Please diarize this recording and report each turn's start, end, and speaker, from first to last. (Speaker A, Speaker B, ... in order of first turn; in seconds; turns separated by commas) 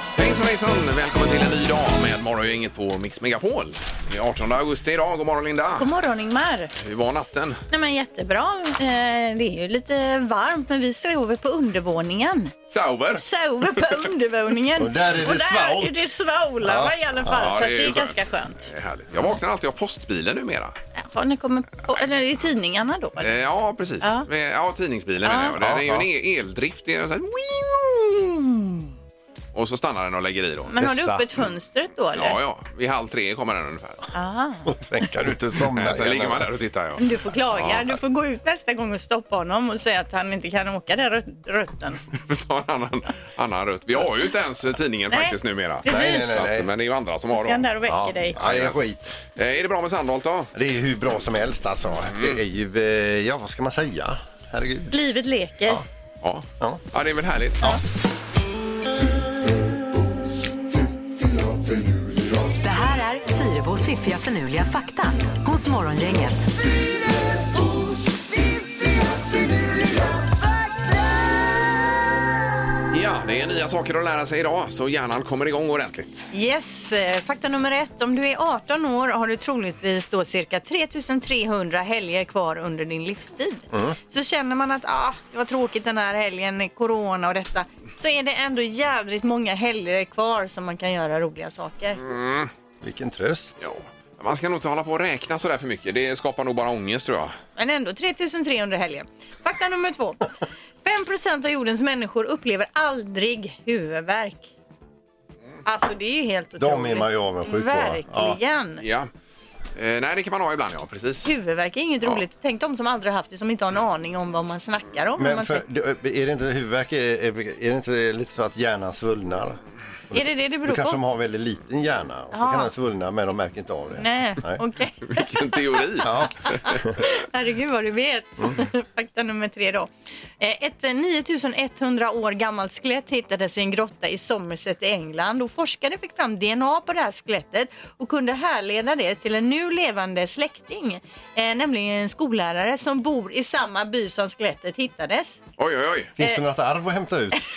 Speaker A: 0.2-5.9, Speaker B: 5.7-6.7, Speaker A: 6.8-7.6, Speaker B: 7.7-12.5, Speaker A: 12.7-13.2, Speaker B: 13.2-18.7, Speaker C: 14.8-16.1, Speaker C: 16.6-17.5, Speaker A: 17.3-20.8, Speaker B: 21.0-23.4, Speaker A: 23.2-28.4, Speaker B: 24.0-24.3, Speaker B: 25.2-25.6, Speaker C: 25.6-26.1, Speaker A: 29.5-30.7, Speaker B: 30.7-32.4, Speaker C: 30.8-31.3, Speaker A: 32.1-34.0, Speaker B: 34.1-34.7, Speaker C: 34.6-36.5, Speaker A: 35.7-38.0, Speaker B: 37.0-42.0, Speaker A: 42.1-47.7, Speaker B: 45.1-46.5, Speaker C: 45.9-46.7, Speaker B: 47.3-48.4, Speaker C: 47.9-49.0, Speaker A: 48.4-48.8, Speaker A: 49.4-50.5, Speaker C: 50.5-55.0, Speaker A: 52.1-52.4, Speaker B: 54.9-55.8, Speaker A: 56.2-57.6, Speaker D: 62.6-66.5, Speaker A: 72.9-76.3, Speaker B: 76.3-92.0, Speaker C: 83.7-84.0, Speaker A: 92.0-92.5, Speaker C: 92.8-93.6, Speaker A: 93.6-97.3, Speaker B: 97.6-100.3, Speaker B: 100.8-104.5, Speaker B: 105.7-108.8, Speaker C: 106.6-108.4, Speaker A: 108.8-109.1, Speaker A: 109.8-111.3, Speaker B: 111.2-115.6, Speaker C: 115.2-119.6, Speaker C: 120.1-124.6, Speaker B: 120.1-121.0, Speaker B: 122.3-122.7, Speaker B: 124.0-125.3, Speaker A: 125.2-126.8, Speaker C: 126.0-126.9, Speaker B: 126.6-129.9, Speaker B: 130.4-145.4, Speaker A: 145.6-146.1, Speaker C: 146.2-147.4